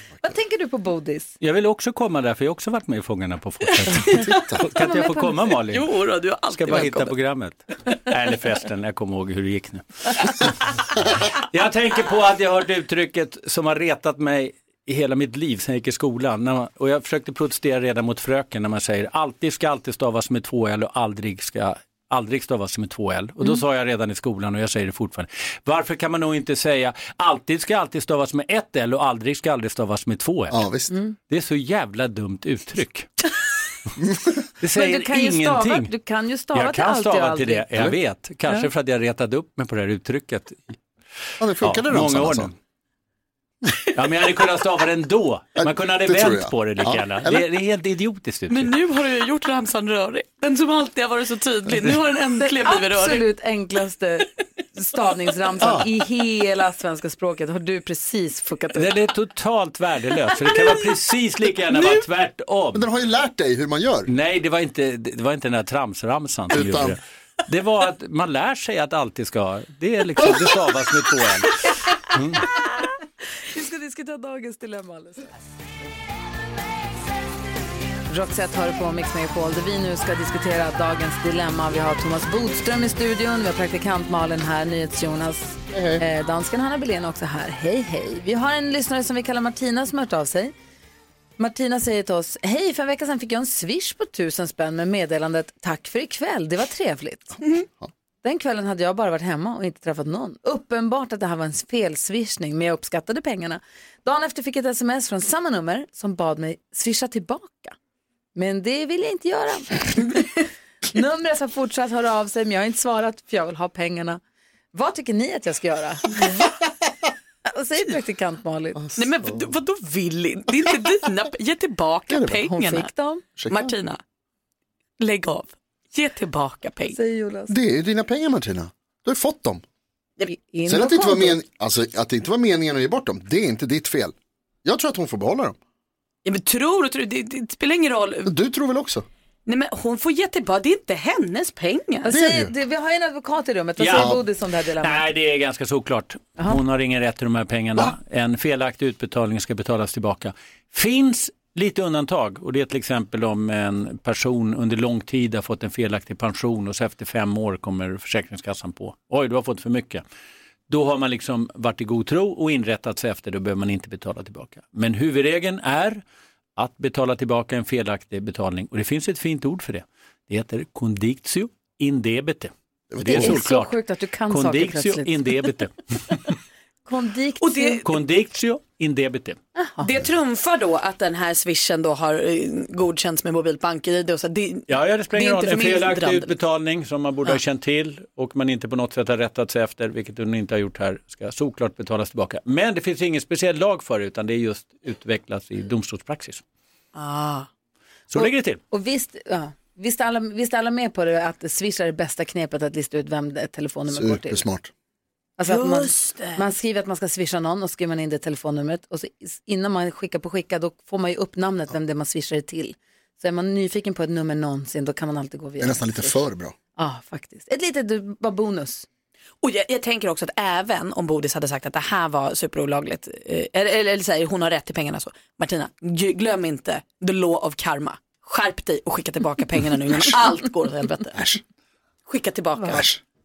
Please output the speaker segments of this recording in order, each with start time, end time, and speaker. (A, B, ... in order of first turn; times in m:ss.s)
0:00.2-0:01.3 A
0:01.4-0:05.9 B
0:03.7-0:04.4 C
0:04.0-0:04.6 D
0:04.7-0:05.5 A
0:05.6-0:07.2 C
0:06.5-0:10.4 B
0:11.4-0:30.6 B
0:30.5-0:30.9 D
0:31.3-0:33.1 B
0:34.0-0:34.3 D
0:34.6-0:35.9 B
0:34.7-0:37.7 A
0:36.5-0:40.7 B
0:41.4-0:42.5 D
0:41.6-0:42.5 B
0:43.9-0:48.7 B
0:45.6-0:47.4 D
0:48.5-0:53.3 C
0:52.4-0:58.9 A
0:55.6-0:55.9 D
0:58.7-1:02.8 B
1:00.4-1:00.9 C
1:01.7-1:02.0 C
1:02.7-1:04.1 D
1:04.1-1:12.4 B
1:06.5-1:07.0 D
1:13.5-1:15.3 A
1:18.1-1:30.5 A
1:25.7-1:26.0 D
1:31.4-1:37.4 A
1:38.2-1:47.8 A
1:48.3-1:54.2 A
1:54.7-1:56.3 A
1:57.4-1:58.8 A
1:58.8-1:59.5 D
1:58.9-2:02.9 C
2:02.1-2:02.4 D
2:02.4-2:03.2 A
2:03.4-2:03.7 D
2:03.5-2:04.0 C
2:05.0-2:07.0 C
2:06.9-2:07.5 A
2:07.5-2:09.6 D
2:10.3-2:11.4 A
2:10.6-2:15.6 D
2:16.2-2:18.3 C
2:18.2-2:19.0 D
2:19.4-2:22.1 C
2:22.0-2:25.0 A
2:22.1-2:22.5 D
2:23.8-2:24.2 B
2:23.9-2:24.2 D
2:24.8-2:40.0 B
2:40.7-2:46.0 B
2:46.6-2:52.5 B
2:52.9-2:53.4 D
2:53.0-2:53.8 B
2:53.0-2:55.4 A
2:54.3-2:56.2 B
2:56.8-2:57.8 A
2:57.4-2:57.9 C
2:57.8-2:59.4 B
2:59.6-2:59.9 A
2:59.8-3:06.4 C
3:04.7-3:16.4 B
3:16.9-3:17.5 C
3:18.1-3:18.6 B
3:18.1-3:24.4 A
3:23.9-3:24.7 D
3:25.4-3:36.2 A
3:25.4-3:26.4 C
3:35.6-3:36.5 D
3:36.8-3:38.9 A
3:39.4-3:51.2 C
3:51.1-3:51.4 D
3:52.1-3:52.9 C
3:52.7-3:53.0 D